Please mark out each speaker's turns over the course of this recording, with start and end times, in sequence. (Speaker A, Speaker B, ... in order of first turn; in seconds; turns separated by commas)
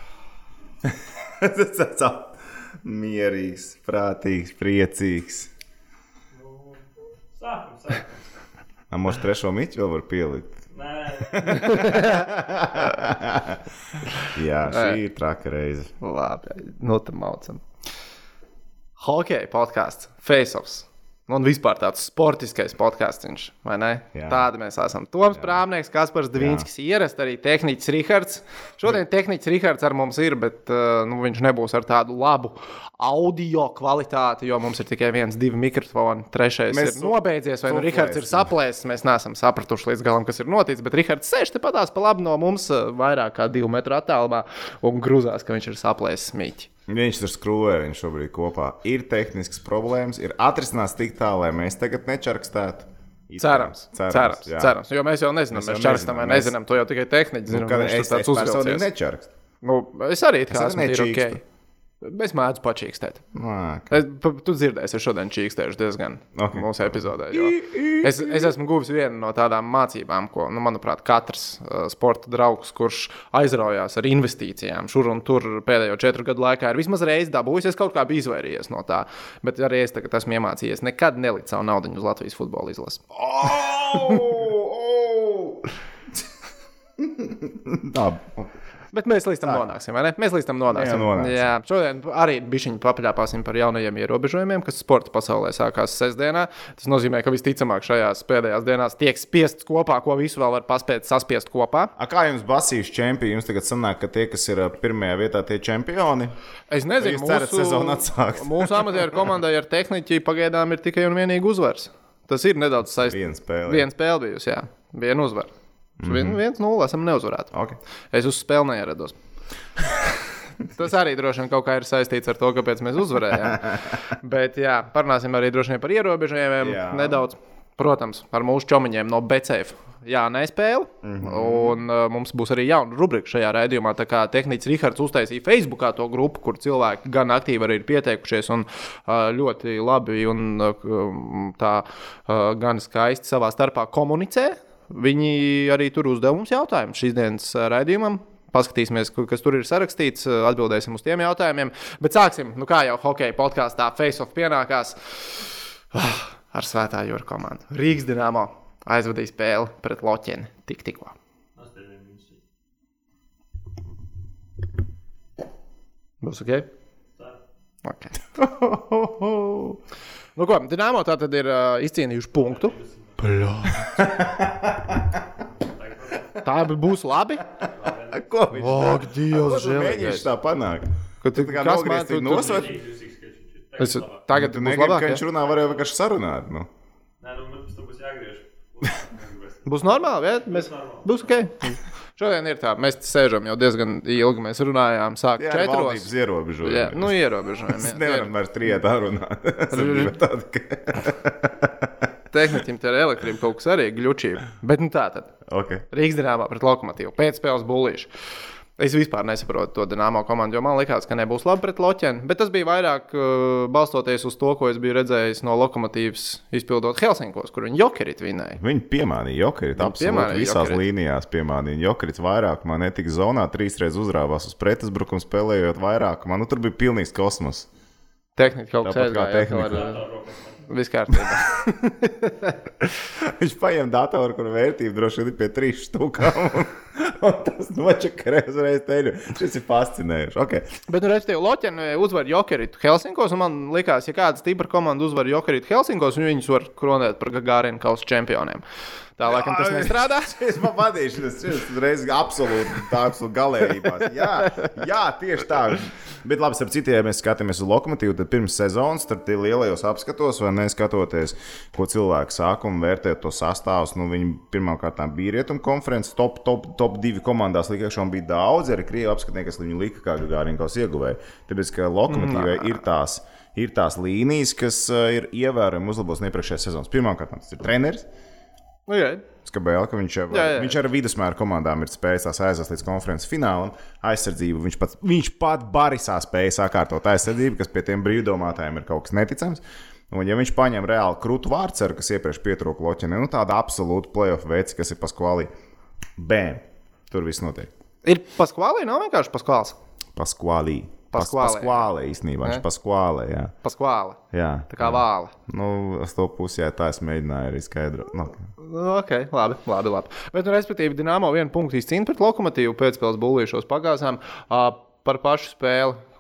Speaker A: 0.8-5.5, Speaker B: 7.3-8.1, Speaker A: 8.9-10.6, Speaker B: 10.7-12.0, Speaker A: 11.2-13.6, Speaker C: 11.6-12.2, Speaker A: 14.3-15.9, Speaker C: 14.7-15.0, Speaker C: 16.0-17.6, Speaker C: 19.0-46.7, Speaker A: 24.1-24.4, Speaker A: 26.4-26.7, Speaker A: 36.7-38.5, Speaker A: 46.9-54.8, Speaker C: 53.4-58.9, Speaker A: 55.5-56.5, Speaker A: 57.5-59.3, Speaker C: 59.6-61.4, Speaker A: 60.5-61.4, Speaker C: 62.0-63.2, Speaker A: 63.3-64.0, Speaker C: 63.9-83.0, Speaker A: 66.3-68.5, Speaker A: 83.1-85.7, Speaker A: 87.0-88.5, Speaker C: 88.9-101.9, Speaker A: 90.7-91.5, Speaker A: 102.0-106.3, Speaker C: 106.7-115.5, Speaker A: 107.0-109.2, Speaker A: 113.0-113.9, Speaker A: 116.0-116.4, Speaker C: 116.0-117.5, Speaker C: 118.1-119.2, Speaker C: 120.7-161.2, Speaker A: 123.5-123.8, Speaker A: 126.6-127.2, Speaker A: 131.0-131.8, Speaker B: 161.6-162.4, Speaker C: 166.2-166.7, Speaker C: 167.8-168.1, Speaker A: 168.4-169.8, Speaker C: 170.4-173.9, Speaker B: 172.4-174.1, Speaker A: 173.8-175.2, Speaker B: 175.6-176.5, Speaker C: 176.4-177.4, Speaker A: 177.6-182.8, Speaker B: 177.6-178.3, Speaker C: 178.5-180.3, Speaker C: 181.2-182.7, Speaker B: 182.3-184.2, Speaker C: 183.8-185.2, Speaker A: 184.3-186.7, Speaker B: 187.2-189.9, Speaker C: 189.7-196.1, Speaker B: 190.4-191.3, Speaker A: 195.4-202.1, Speaker C: 196.6-198.3, Speaker C: 199.7-200.1, Speaker C: 202.3-205.3, Speaker A: 205.5-205.8, Speaker C: 205.9-208.1, Speaker C: 208.8-218.6, Speaker A: 218.6-227.7, Speaker C: 219.8-220.8, Speaker C: 228.4-230.0, Speaker A: 228.8-230.0, Speaker B: 229.6-230.7, Speaker C: 230.7-232.9, Speaker A: 233.2-240.7, Speaker C: 240.9-248.6, Speaker C: 249.2-250.3, Speaker A: 249.3-278.1, Speaker C: 272.1-272.8, Speaker C: 278.9-279.2, Speaker A: 279.4-295.5, Speaker C: 280.3-280.8, Speaker A: 296.2-297.7, Speaker C: 298.0-299.8, Speaker A: 300.2-303.5, Speaker C: 301.1-301.9, Speaker C: 303.6-305.3, Speaker A: 304.3-308.5, Speaker C: 308.6-316.0